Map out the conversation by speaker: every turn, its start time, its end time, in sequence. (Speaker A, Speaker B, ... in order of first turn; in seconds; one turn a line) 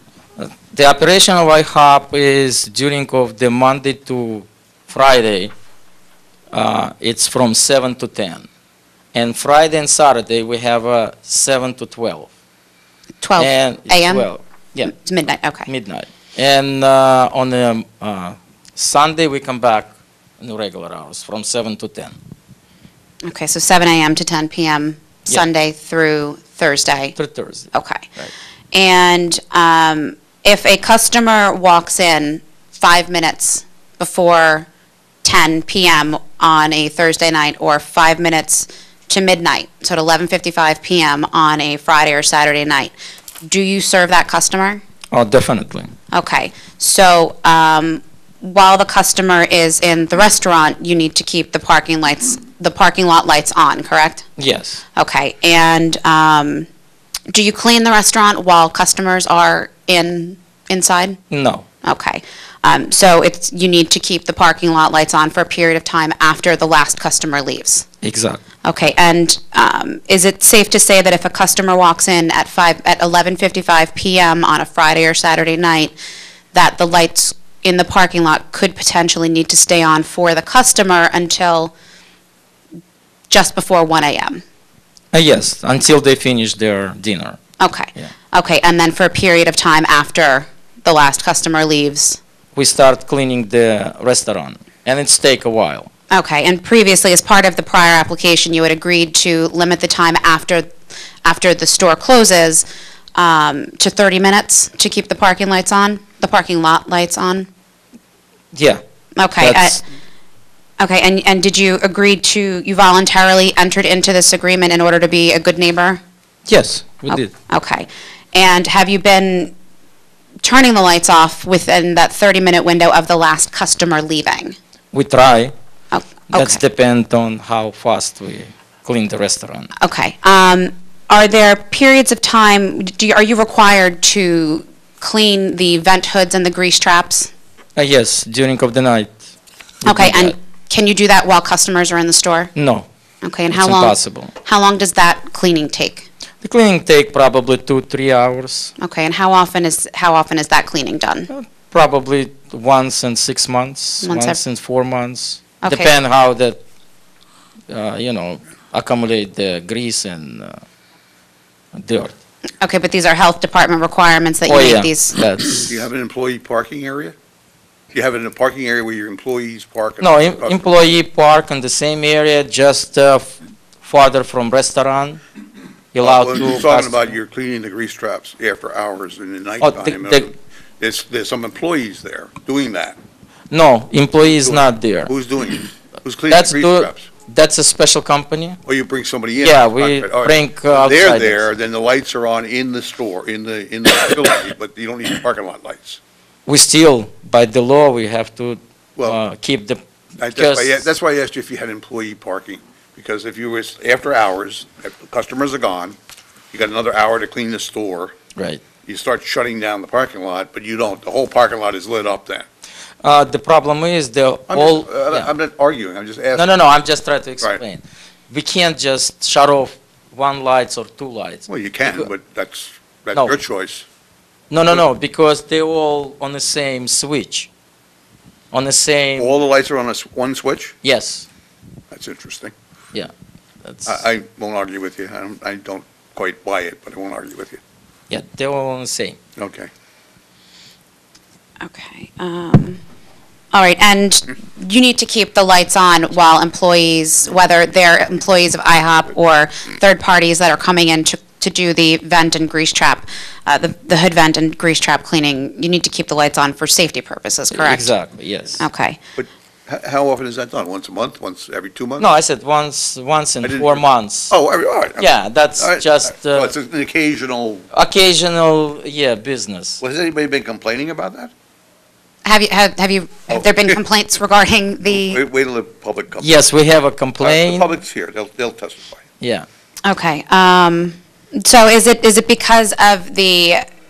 Speaker A: 0.4-5.5
Speaker A: 6.5-8.4
Speaker A: 9.1-12.3
Speaker B: 13.2-14.3
Speaker A: 13.4-14.9
Speaker B: 14.8-15.7
Speaker A: 15.7-19.9
Speaker A: 20.4-22.1
Speaker B: 23.2-27.2
Speaker A: 27.2-28.3
Speaker B: 27.7-28.1
Speaker B: 28.7-34.7
Speaker B: 35.2-44.8
Speaker A: 45.1-45.9
Speaker B: 46.1-54.3
Speaker A: 54.4-54.8
Speaker B: 55.0-56.7
Speaker B: 57.3-61.2
Speaker A: 61.3-61.6
Speaker B: 61.8-67.9
Speaker A: 68.0-68.4
Speaker B: 68.7-75.9
Speaker B: 76.5-81.7
Speaker B: 83.3-84.4
Speaker A: 85.1-87.4
Speaker B: 87.6-92.2
Speaker A: 92.6-95.9
Speaker B: 96.1-100.7
Speaker B: 101.2-107.5
Speaker A: 108.5-108.8
Speaker B: 109.2-109.8
Speaker A: 109.4-109.8
Speaker B: 110.8-116.0
Speaker A: 116.5-117.3
Speaker B: 117.1-119.5
Speaker B: 120.4-124.6
Speaker A: 124.9-125.5
Speaker B: 125.9-126.6
Speaker A: 126.3-129.7
Speaker B: 129.8-137.3
Speaker A: 137.8-139.1
Speaker A: 139.8-140.3
Speaker B: 139.8-142.5
Speaker A: 142.6-142.9
Speaker B: 143.2-146.1
Speaker A: 143.5-144.3
Speaker A: 146.4-148.7
Speaker B: 148.8-151.3
Speaker A: 151.3-156.6
Speaker B: 154.0-154.4
Speaker B: 155.6-155.9
Speaker A: 157.7-160.6
Speaker A: 161.8-162.1
Speaker B: 162.6-165.2
Speaker A: 164.5-165.8
Speaker C: 165.7-167.2
Speaker C: 167.9-170.7
Speaker A: 170.0-175.2
Speaker A: 175.9-177.1
Speaker C: 176.0-183.0
Speaker A: 179.6-180.3
Speaker A: 183.5-185.1
Speaker C: 184.3-187.1
Speaker A: 186.3-188.6
Speaker C: 188.7-196.0
Speaker A: 189.4-191.5
Speaker A: 196.5-199.8
Speaker C: 200.2-206.0
Speaker A: 200.3-200.8
Speaker C: 206.5-208.1
Speaker A: 208.4-208.6
Speaker C: 208.8-212.5
Speaker A: 213.0-215.3
Speaker C: 214.5-216.5
Speaker A: 216.4-222.1
Speaker C: 221.5-223.8
Speaker A: 223.1-223.4
Speaker A: 224.5-227.5
Speaker A: 228.5-229.4
Speaker C: 229.2-230.8
Speaker A: 230.8-231.3
Speaker C: 231.9-232.5
Speaker A: 233.6-234.0
Speaker C: 233.9-237.6
Speaker A: 238.1-239.2
Speaker C: 239.4-239.7
Speaker B: 241.6-242.8
Speaker B: 243.5-257.9
Speaker A: 257.5-258.6
Speaker B: 258.6-259.0
Speaker C: 259.2-262.1
Speaker A: 262.0-264.4
Speaker C: 263.4-267.7
Speaker A: 265.0-266.5
Speaker A: 267.7-269.8
Speaker C: 269.8-271.3
Speaker B: 272.2-275.2
Speaker C: 273.3-273.7
Speaker C: 274.9-276.4
Speaker A: 276.2-277.7
Speaker C: 277.2-279.0
Speaker A: 279.2-279.5
Speaker B: 279.9-283.6